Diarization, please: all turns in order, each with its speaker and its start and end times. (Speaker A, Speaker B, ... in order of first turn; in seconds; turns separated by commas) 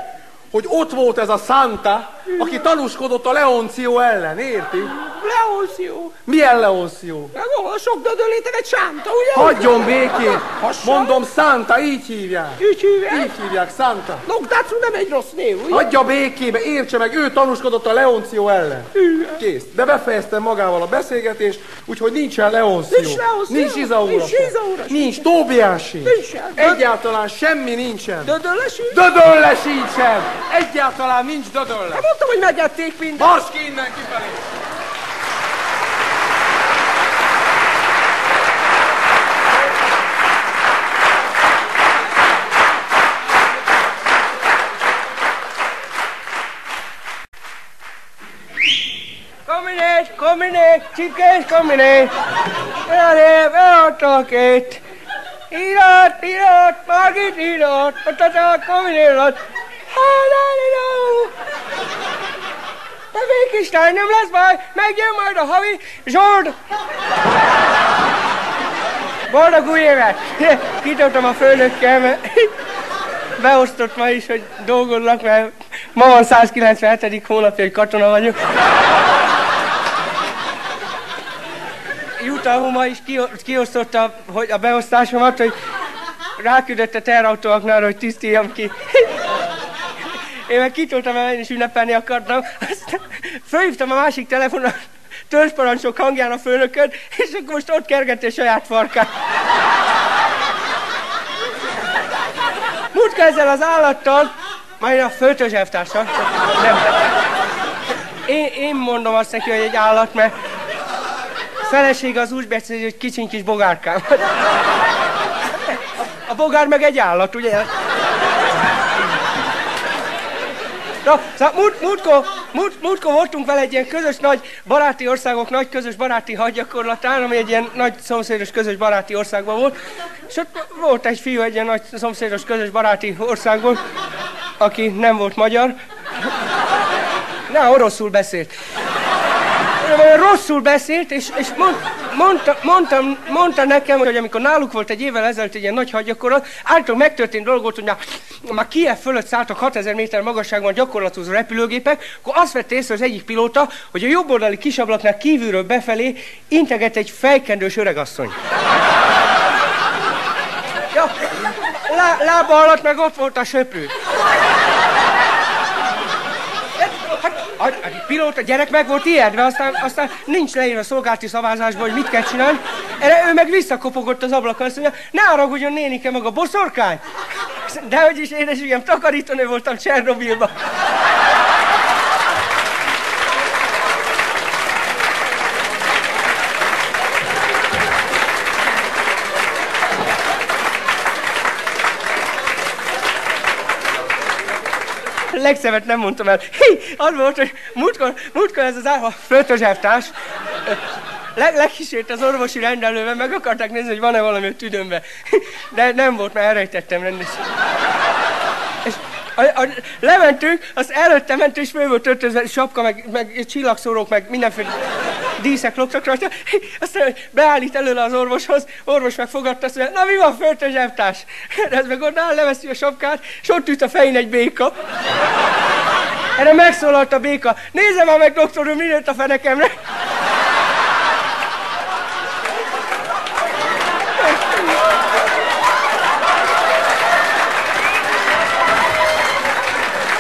Speaker A: 0.5-4.9, Speaker B: 4.9-6.2, Speaker A: 6.2-7.3, Speaker B: 7.3-11.2, Speaker A: 9.3-14.2, Speaker B: 12.6-13.3, Speaker B: 14.2-15.9, Speaker A: 15.7-28.4, Speaker B: 19.0-19.4, Speaker B: 22.9-25.3, Speaker B: 26.0-26.8, Speaker B: 28.2-29.0, Speaker A: 28.9-32.1, Speaker B: 31.9-33.3, Speaker A: 33.1-34.4, Speaker C: 49.5-52.1, Speaker C: 52.9-54.8, Speaker C: 55.5-59.4, Speaker C: 59.9-61.3, Speaker C: 63.1-66.6, Speaker C: 69.3-72.5, Speaker C: 73.4-78.4, Speaker C: 82.2-85.5, Speaker C: 86.4-89.2, Speaker C: 90.5-94.8, Speaker C: 95.3-99.1, Speaker C: 102.9-106.9, Speaker C: 108.3-110.3, Speaker C: 111.6-114.3, Speaker C: 115.6-117.7, Speaker C: 121.0-129.8, Speaker C: 130.3-133.8, Speaker C: 134.6-135.8, Speaker C: 137.5-138.5, Speaker C: 139.8-158.3, Speaker C: 160.9-163.9, Speaker C: 166.8-177.0, Speaker C: 177.7-180.5, Speaker C: 195.3-200.1, Speaker C: 201.4-207.4, Speaker C: 208.8-214.7, Speaker C: 215.4-224.7, Speaker C: 226.4-229.8